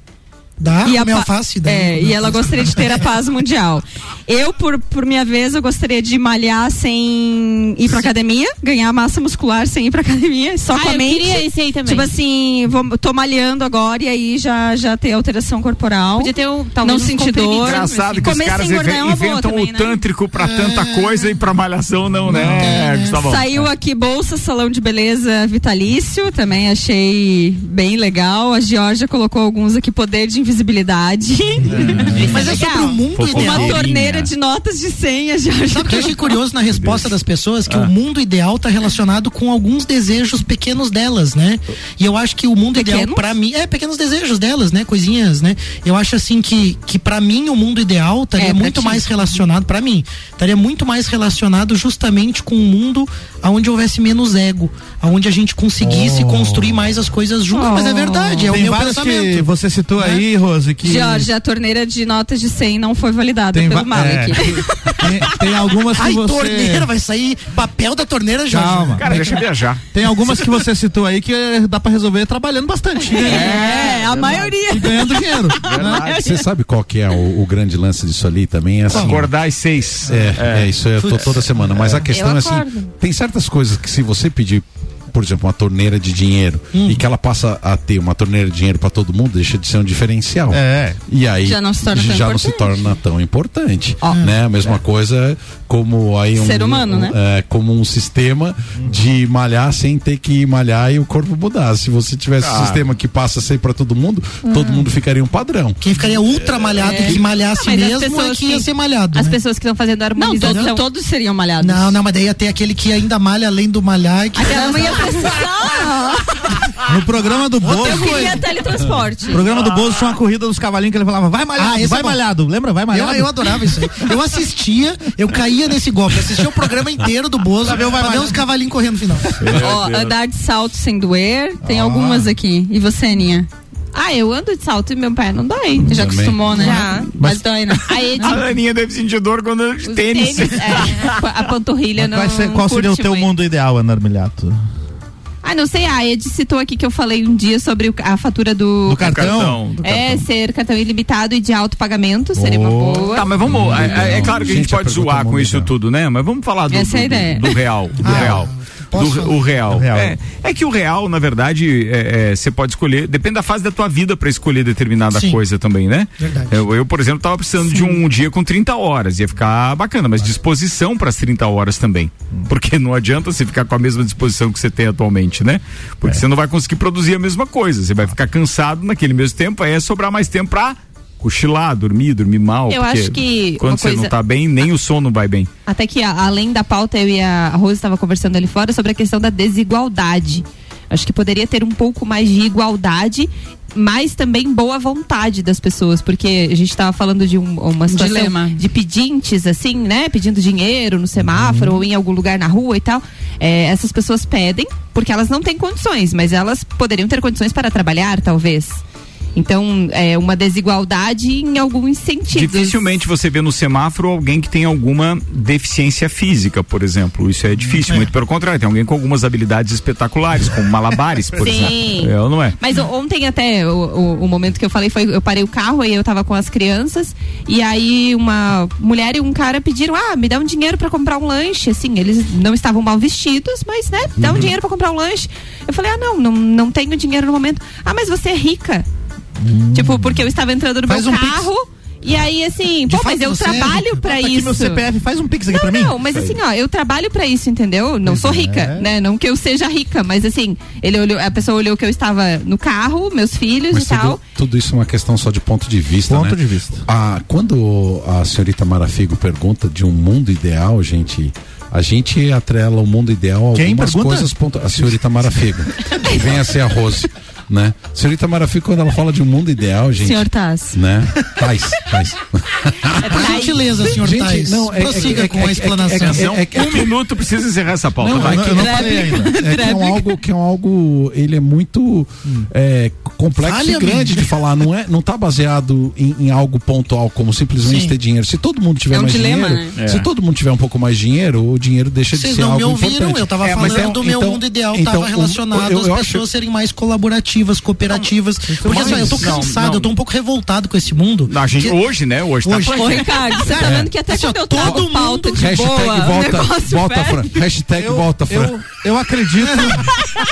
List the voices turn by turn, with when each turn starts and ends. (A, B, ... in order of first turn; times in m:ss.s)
0:00.6-0:03.0 A
0:00.8-0:20.0 B
0:10.7-0:12.1 C
0:16.2-0:18.4 C
0:17.6-0:23.7 D
0:20.4-0:21.3 A
0:22.3-0:23.2 A
0:22.4-0:22.7 E
0:23.1-0:36.4 B
0:31.7-0:32.4 E
0:31.7-0:32.4 D
0:32.2-0:33.8 A
0:32.2-0:32.9 C
0:33.1-0:34.3 D
0:35.7-0:59.5 A
0:36.7-0:37.2 D
0:42.8-0:43.2 C
0:48.4-0:49.1 C
0:55.8-0:56.8 E
0:57.5-0:58.4 B
0:58.5-1:01.3 E
1:00.8-1:05.4 B
1:03.5-1:06.9 E
1:06.0-1:09.3 A
1:08.5-1:09.4 E
1:09.0-1:09.8 D
1:09.9-1:16.0 E
1:13.1-1:16.4 B
1:13.2-1:14.5 D
1:15.6-1:16.3 D
1:16.0-1:19.3 F
1:18.9-1:20.7 D
1:18.9-1:19.2 A
1:20.0-1:45.8 F
1:21.0-1:22.0 A
1:22.1-1:22.9 C
1:26.7-1:27.0 A
1:30.5-1:31.0 E
1:31.4-1:32.8 B
1:34.0-1:34.3 B
1:34.1-1:34.4 A
1:36.4-1:37.2 B
1:42.4-1:42.8 D
1:45.8-1:49.4 A
1:46.8-1:47.2 B
1:47.6-1:50.8 C
1:50.2-1:52.0 B
1:50.4-1:50.8 A
1:51.6-1:55.4 A
1:54.4-1:56.7 B
1:56.9-1:58.4 E
1:57.7-1:59.5 B
1:57.9-1:58.2 A
1:59.3-2:04.2 E
2:01.6-2:02.2 A
2:02.9-2:09.5 A
2:06.4-2:06.7 E
2:07.6-2:08.4 E
2:09.4-2:10.2 D
2:09.5-2:13.5 B
2:11.6-2:12.3 E
2:13.9-2:17.1 C
2:15.9-2:16.5 F
2:15.9-2:18.4 B
2:17.8-2:18.5 C
2:18.2-2:21.2 D
2:19.8-2:23.3 C
2:22.0-2:24.6 E
2:25.4-2:29.2 C
2:28.9-2:29.6 E
2:29.0-2:30.2 D
2:29.8-2:33.3 C
2:32.4-2:33.9 E
2:33.1-3:05.5 D
2:33.5-2:35.7 F
2:36.7-2:37.6 B
2:38.0-2:39.5 A
2:38.0-2:38.4 E
2:39.7-2:40.2 E
2:45.1-2:45.4 A
2:46.2-2:46.6 A
2:47.7-2:48.0 B
3:02.7-3:04.1 C
3:05.7-3:28.8 C
3:17.9-3:18.6 B
3:21.3-3:21.8 E
3:29.4-3:32.8 C
3:32.3-3:42.6 D
3:41.4-3:41.8 E
3:41.4-3:58.9 C
3:54.2-3:54.5 E
3:59.4-4:00.2 E
3:59.7-4:04.8 C
4:00.9-4:01.5 E
4:02.9-4:04.0 A
4:04.0-4:06.3 E
4:05.5-4:14.2 C
4:08.0-4:08.9 E
4:13.7-4:36.9 F
4:16.1-4:16.8 E
4:23.6-4:24.9 E
4:30.0-4:30.8 B
4:33.1-4:36.4 A
4:33.1-4:33.7 B
4:36.0-4:38.7 D
4:38.0-4:56.3 F
4:38.1-4:39.4 E
4:38.5-4:40.2 B
4:43.4-4:44.3 A
4:47.6-4:48.0 A
4:48.9-4:49.8 B
4:49.8-4:50.1 D
4:52.1-5:01.8 A
4:53.4-4:53.9 D
4:58.5-4:59.6 E
4:58.7-4:59.9 D
5:01.3-5:03.5 D
5:02.4-5:05.5 A
5:02.7-5:07.3 B
5:03.6-5:03.9 F
5:04.6-5:08.6 F
5:07.8-5:09.9 E